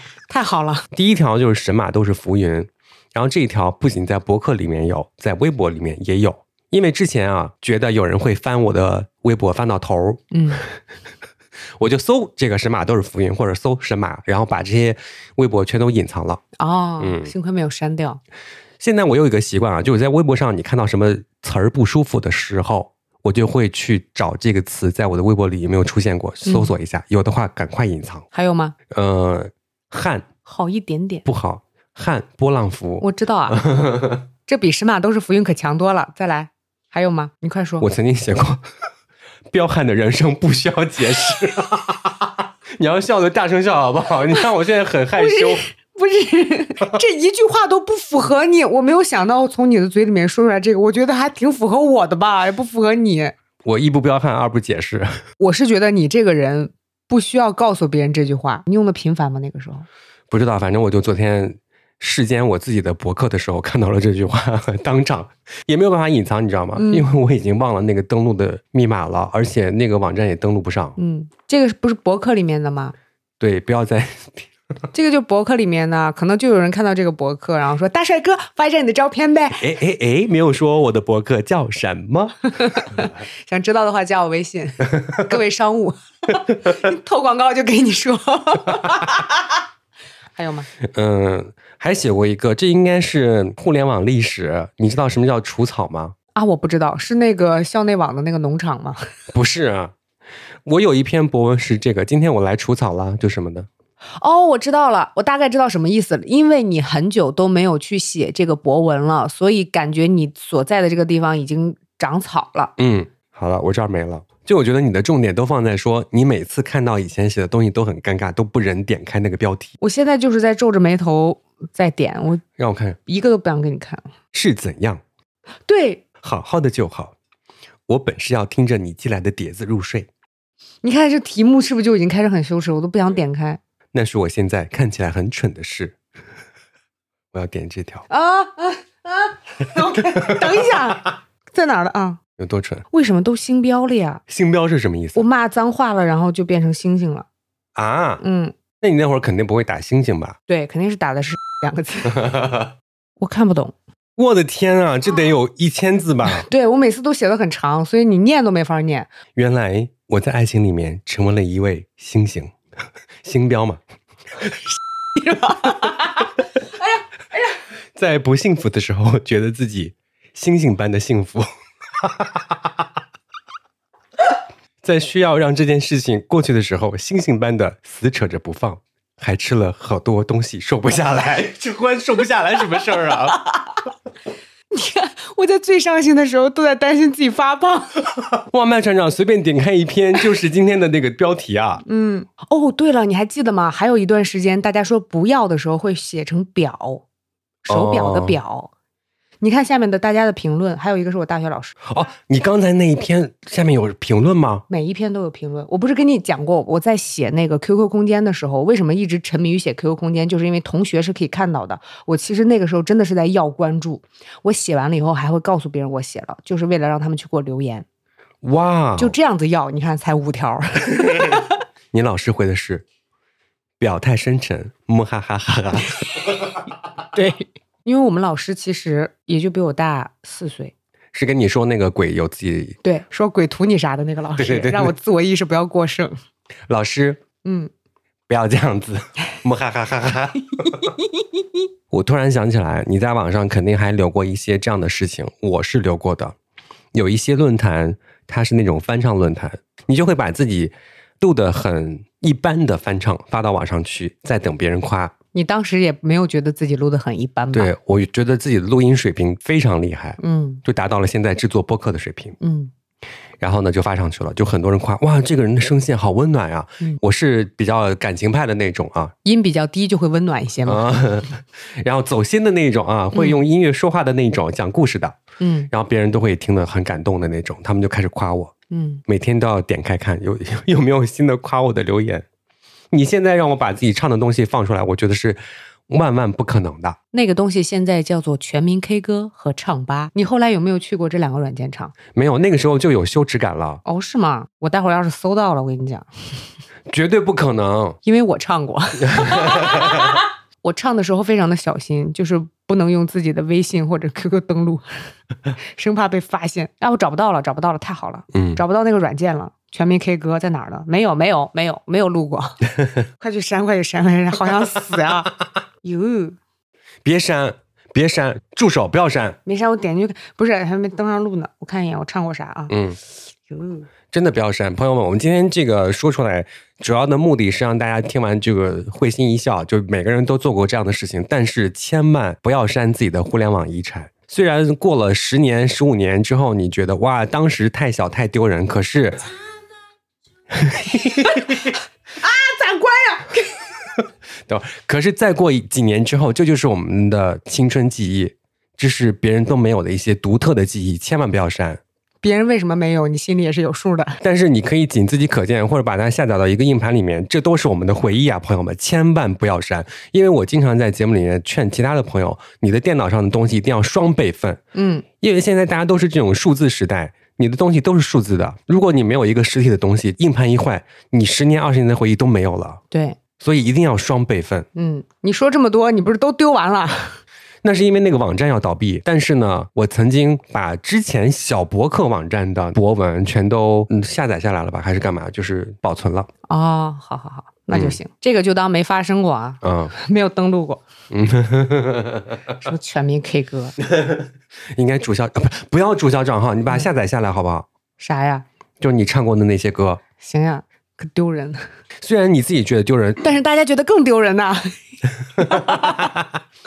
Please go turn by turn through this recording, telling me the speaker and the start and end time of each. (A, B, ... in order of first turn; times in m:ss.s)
0:00.3-0:00.9 A
0:00.9-0:10.2 B
0:10.3-0:10.6 A
0:11.8-0:16.4 B
0:16.6-0:18.2 A
0:17.0-0:17.3 B
0:18.8-0:28.2 B
0:26.4-0:26.7 A
0:28.3-0:28.7 A
0:28.9-0:30.3 B
0:30.4-0:31.2 A
0:31.2-0:34.3 B
0:33.0-0:33.6 A
0:34.4-0:37.8 A
0:37.8-0:38.6 B
0:39.5-0:45.6 B
0:45.2-0:53.3 A
0:53.6-0:55.1 B
0:55.4-0:59.8 A
1:00.3-1:11.0 B
1:06.8-1:07.1 A
1:11.0-1:12.9 A
1:13.4-1:14.5 B
1:14.9-1:19.7 A
1:19.6-1:23.1 B
1:22.6-1:29.6 A
1:30.4-1:30.7 A
1:30.8-1:36.1 B
1:36.3-1:39.0 A
1:39.3-1:39.9 B
1:40.6-1:43.7 B
1:44.2-1:52.7 A
1:52.8-1:59.7 B
1:59.8-2:02.4 A
2:02.6-2:03.0 B
2:03.1-2:04.1 A
2:04.3-2:05.0 B
2:05.6-2:06.0 A
2:06.2-2:07.1 B
2:07.9-2:10.1 B
2:10.8-2:13.6 A
2:13.9-2:16.0 B
2:17.3-2:18.0 B
2:18.1-2:22.2 A
2:20.1-2:20.4 B
2:22.4-2:22.8 B
2:22.9-2:24.2 A
2:24.3-2:25.2 B
2:25.2-2:27.2 A
2:27.8-2:28.2 B
2:28.2-2:28.5 A
2:28.8-2:30.4 B
2:30.5-2:32.2 A
2:32.1-2:32.7 B
2:33.2-2:33.7 A
2:34.2-2:36.4 B
2:36.4-2:39.1 A
2:39.3-2:42.5 B
2:43.2-2:43.8 B
2:45.1-2:46.3 A
2:48.0-2:51.5 B
2:52.0-2:52.8 B
2:54.8-3:03.4 B
3:04.7-3:07.9 A
3:08.5-3:11.8 B
3:11.8-3:17.0 A
3:17.6-3:18.7 A
3:17.7-3:18.4 B
3:19.4-3:21.8 A
3:21.8-3:24.6 B
3:24.7-3:37.8 A
3:38.4-3:39.1 B
3:39.0-3:41.6 A
3:41.9-3:42.8 B
3:43.8-3:46.4 B
3:47.1-3:50.7 A
3:51.1-3:52.8 B
3:52.8-3:56.2 A
3:54.4-3:54.9 B
3:56.7-3:57.2 B
3:57.4-3:57.7 A
3:58.3-4:00.8 B
4:00.6-4:01.4 A
4:01.9-4:06.3 B
4:06.9-4:15.1 B
4:15.3-4:17.7 A
4:17.5-4:22.4 B
4:20.2-4:20.6 A
4:22.4-4:22.7 A
4:23.4-4:29.1 B
4:29.2-4:30.8 A
4:30.6-4:35.2 B
4:33.1-4:33.4 A
4:35.4-4:35.7 A
4:35.7-4:38.5 B
4:38.7-4:39.0 A
4:39.1-4:42.2 B
4:42.9-4:47.0 B
4:47.1-4:51.9 A
4:52.1-4:53.8 B
4:53.8-4:56.4 A
4:56.9-4:58.0 B
4:58.0-5:05.1 A
4:59.0-5:00.1 B
5:05.6-5:12.6 A
5:08.3-5:08.6 B
5:13.2-5:16.4 A
5:17.0-5:19.4 B
5:19.4-5:22.7 A
5:22.7-5:23.0 B
5:23.5-5:23.9 A
5:24.1-5:39.3 B
5:40.5-5:41.7 B
5:41.2-5:41.4 A
5:42.2-5:43.6 A
5:44.5-5:51.8 B
5:52.2-5:54.2 A
5:54.2-6:04.6 B
6:04.7-6:05.0 A
6:05.2-6:12.8 B
6:12.9-6:13.2 A
6:13.4-6:14.7 B
6:14.7-6:17.2 A
6:17.6-6:26.3 B
6:26.5-6:30.8 A
6:27.7-6:28.0 B
6:29.6-6:29.9 B
6:31.1-6:32.5 B
6:32.6-6:33.7 A
6:33.8-6:37.7 B
6:38.0-6:38.4 A
6:38.8-6:40.0 B
6:40.2-6:41.7 A
6:42.0-6:43.2 B
6:43.2-6:44.8 A
6:45.4-6:46.1 A
6:45.4-6:46.3 B